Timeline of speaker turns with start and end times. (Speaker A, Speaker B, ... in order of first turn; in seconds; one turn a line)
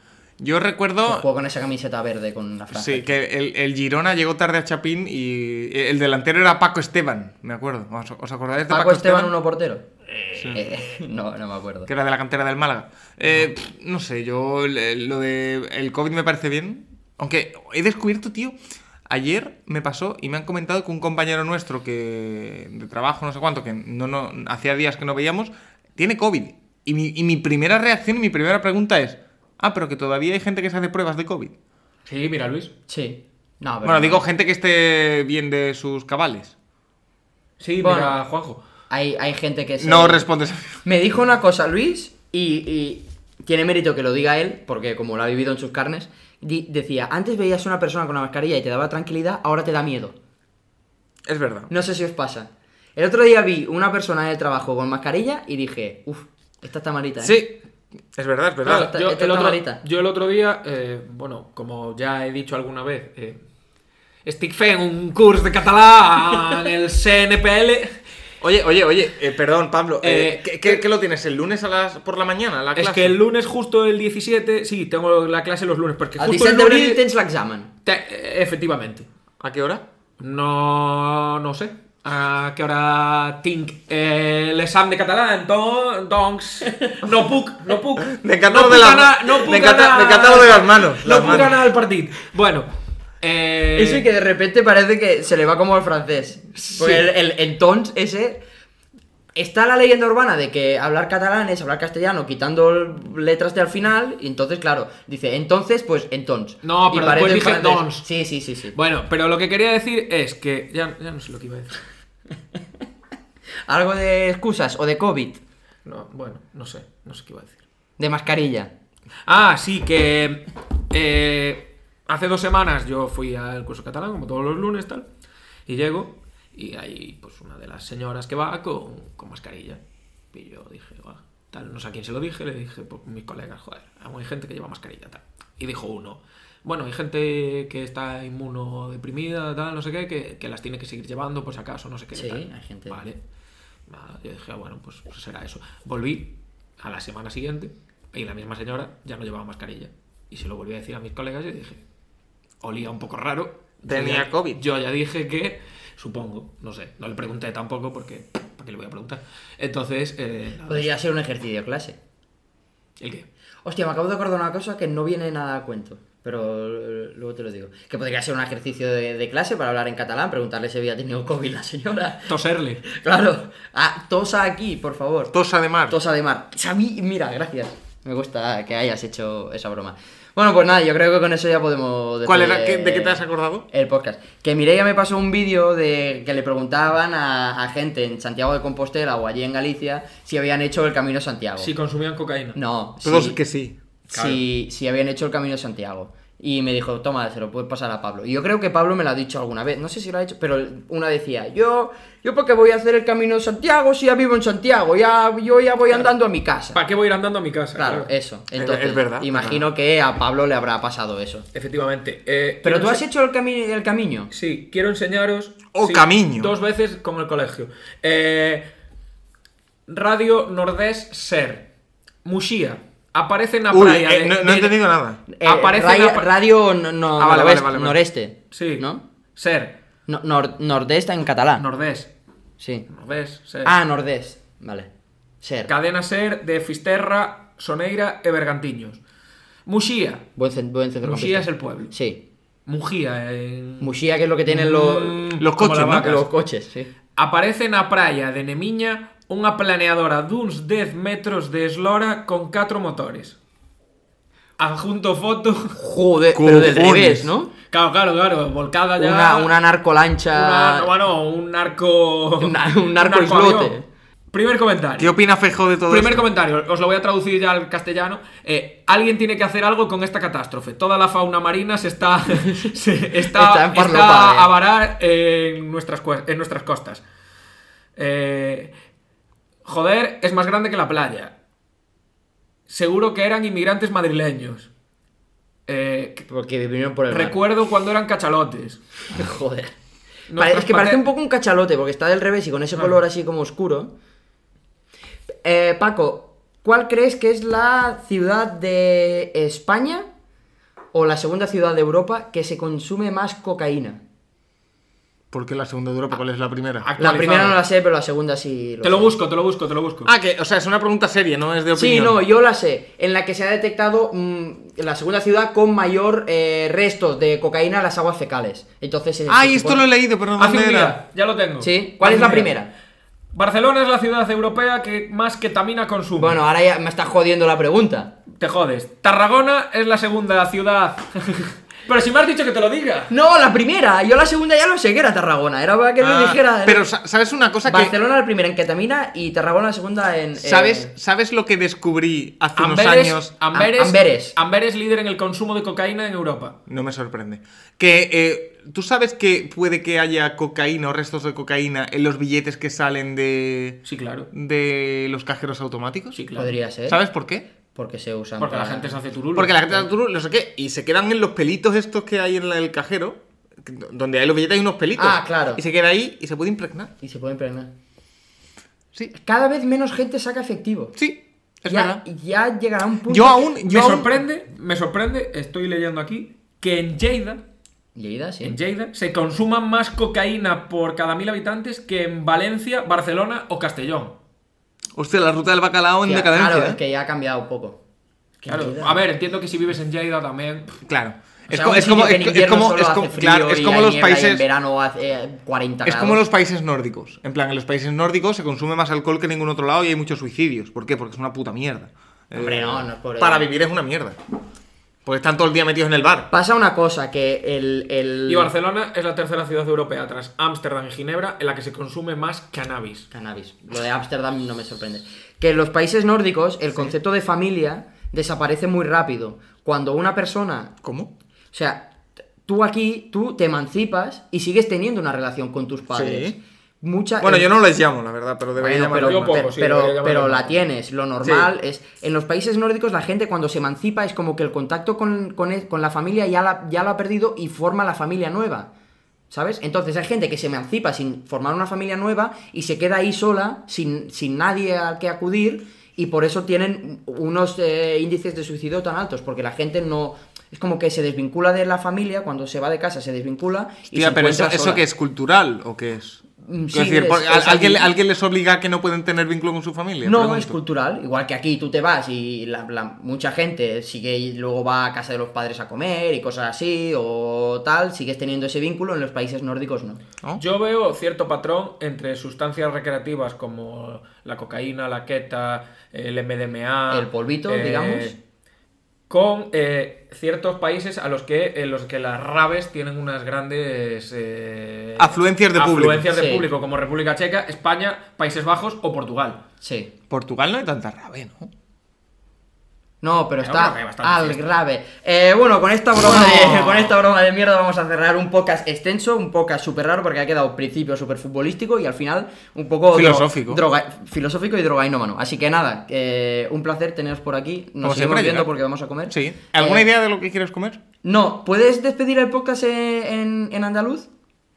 Speaker A: 0.4-1.3
Speaker B: 1.1-3.1
Speaker A: 2.7-9.3
Speaker B: 8.7-9.8
Speaker C: 10.2-10.5
Speaker A: 10.4-10.6
Speaker B: 10.5-11.9
Speaker A: 11.9-18.6
Speaker A: 19.1-31.5
Speaker C: 32.1-32.7
Speaker B: 32.9-34.2
Speaker A: 33.8-36.5
Speaker C: 37.6-38.6
Speaker B: 37.8-38.2
Speaker B: 38.9-40.3
Speaker A: 39.8-40.8
Speaker B: 40.8-50.1
Speaker A: 51.3-51.7
Speaker B: 51.7-57.4
Speaker A: 57.2-57.6
Speaker A: 58.1-58.9
Speaker B: 58.6-59.8
Speaker C: 58.7-63.4
Speaker C: 64.2-68.0
Speaker A: 68.4-73.2
Speaker C: 70.0-70.8
Speaker C: 72.8-77.0
Speaker B: 76.2-77.7
Speaker C: 77.8-79.1
Speaker A: 79.4-79.8
Speaker C: 80.2-92.7
Speaker A: 88.0-91.6
Speaker C: 93.2-94.1
Speaker B: 93.8-98.4
Speaker C: 96.6-97.1
Speaker B: 99.4-108.8
Speaker C: 106.6-108.1
Speaker C: 108.7-111.8
Speaker B: 113.7-115.4
Speaker C: 115.8-117.6
Speaker B: 118.0-118.7
Speaker C: 119.3-125.1
Speaker C: 125.7-129.8
Speaker C: 130.3-143.2
Speaker B: 142.1-143.0
Speaker C: 143.9-151.8
Speaker C: 152.6-160.9
Speaker A: 153.9-154.6
Speaker B: 160.7-162.0
Speaker C: 163.0-163.3
Speaker B: 163.7-175.3
Speaker C: 172.3-172.8
Speaker A: 175.3-176.0
Speaker B: 175.9-191.7
Speaker A: 182.2-183.7
Speaker C: 191.6-192.6
Speaker B: 192.6-193.4
Speaker A: 193.0-193.8
Speaker B: 194.1-206.8
Speaker C: 194.1-194.4
Speaker C: 206.7-208.1
Speaker B: 207.8-211.5
Speaker A: 208.6-209.3
Speaker C: 211.5-213.0
Speaker B: 212.6-214.3
Speaker C: 214.3-218.7
Speaker A: 215.7-216.5
Speaker C: 219.9-221.7
Speaker C: 222.2-224.8
Speaker A: 223.7-225.2
Speaker B: 225.3-229.0
Speaker C: 225.4-226.3
Speaker A: 227.2-228.0
Speaker C: 228.5-229.8
Speaker B: 230.1-231.6
Speaker C: 231.6-232.1
Speaker B: 232.6-232.9
Speaker C: 232.9-233.7
Speaker B: 233.6-234.9
Speaker B: 235.4-235.7
Speaker C: 235.7-239.0
Speaker C: 239.7-240.3
Speaker B: 240.4-242.2
Speaker C: 241.0-241.9
Speaker C: 242.7-243.9
Speaker B: 243.8-245.3
Speaker C: 244.5-246.3
Speaker A: 245.4-246.2
Speaker B: 245.9-246.9
Speaker C: 247.2-253.4
Speaker C: 254.6-255.8
Speaker B: 255.8-257.5
Speaker A: 256.3-257.3
Speaker C: 257.7-259.5
Speaker B: 259.0-260.9
Speaker C: 260.3-263.8
Speaker B: 262.4-263.9
Speaker C: 264.3-265.1
Speaker A: 265.0-266.2
Speaker C: 265.9-277.0
Speaker B: 272.4-274.5
Speaker C: 278.0-278.7
Speaker C: 279.6-281.3
Speaker C: 282.7-284.7
Speaker C: 285.7-286.3
Speaker B: 286.3-287.4
Speaker C: 287.1-288.8
Speaker B: 289.1-289.7
Speaker C: 290.3-291.0
Speaker B: 290.4-293.9
Speaker B: 295.4-300.1
Speaker B: 300.9-304.0
Speaker A: 305.3-306.9
Speaker C: 306.8-307.6
Speaker B: 307.0-309.1
Speaker C: 308.8-310.1
Speaker A: 310.1-312.2
Speaker B: 311.7-319.8
Speaker A: 319.3-321.0
Speaker C: 320.4-322.6
Speaker B: 321.6-322.7
Speaker C: 323.3-326.4
Speaker B: 326.2-328.1
Speaker C: 328.4-333.1
Speaker B: 333.1-336.9
Speaker A: 336.0-337.9
Speaker B: 337.6-340.9
Speaker A: 340.4-343.3
Speaker C: 342.6-346.6
Speaker B: 343.5-344.4
Speaker A: 346.7-353.8
Speaker C: 353.9-354.3
Speaker A: 354.3-356.2
Speaker C: 356.1-356.5
Speaker B: 356.4-357.0
Speaker A: 356.9-357.5
Speaker B: 357.7-359.0
Speaker C: 358.4-359.8
Speaker A: 359.4-366.9
Speaker B: 365.0-365.6
Speaker B: 367.0-367.7
Speaker B: 369.1-371.0
Speaker A: 371.0-372.0
Speaker B: 371.7-373.5
Speaker A: 373.1-374.1
Speaker C: 373.6-377.4
Speaker B: 378.0-378.6
Speaker C: 378.4-384.2
Speaker A: 385.0-386.8
Speaker B: 386.1-387.8
Speaker B: 388.4-389.0
Speaker C: 388.5-390.8
Speaker A: 390.9-394.4
Speaker B: 391.5-396.2
Speaker A: 395.9-404.2
Speaker B: 402.3-403.5
Speaker A: 405.1-406.3
Speaker B: 406.3-408.5
Speaker C: 408.3-413.1
Speaker B: 413.1-420.7
Speaker A: 420.8-421.1
Speaker B: 421.5-421.9
Speaker B: 422.4-427.5
Speaker A: 425.9-426.4
Speaker A: 427.2-429.4
Speaker B: 428.6-438.7
Speaker C: 428.9-430.6
Speaker A: 431.2-431.5
Speaker B: 439.3-454.8
Speaker A: 453.9-460.6
Speaker B: 456.4-457.9
Speaker B: 460.0-470.0
Speaker C: 470.4-478.2
Speaker B: 476.9-478.1
Speaker C: 479.1-489.4
Speaker A: 485.0-486.1
Speaker B: 486.1-486.5
Speaker B: 489.6-489.9
Speaker A: 490.1-491.5
Speaker B: 493.0-509.9
Speaker C: 493.4-494.4
Speaker C: 496.0-496.9
Speaker A: 502.9-503.6
Speaker A: 507.8-508.5
Speaker A: 509.1-510.8
Speaker B: 511.0-514.1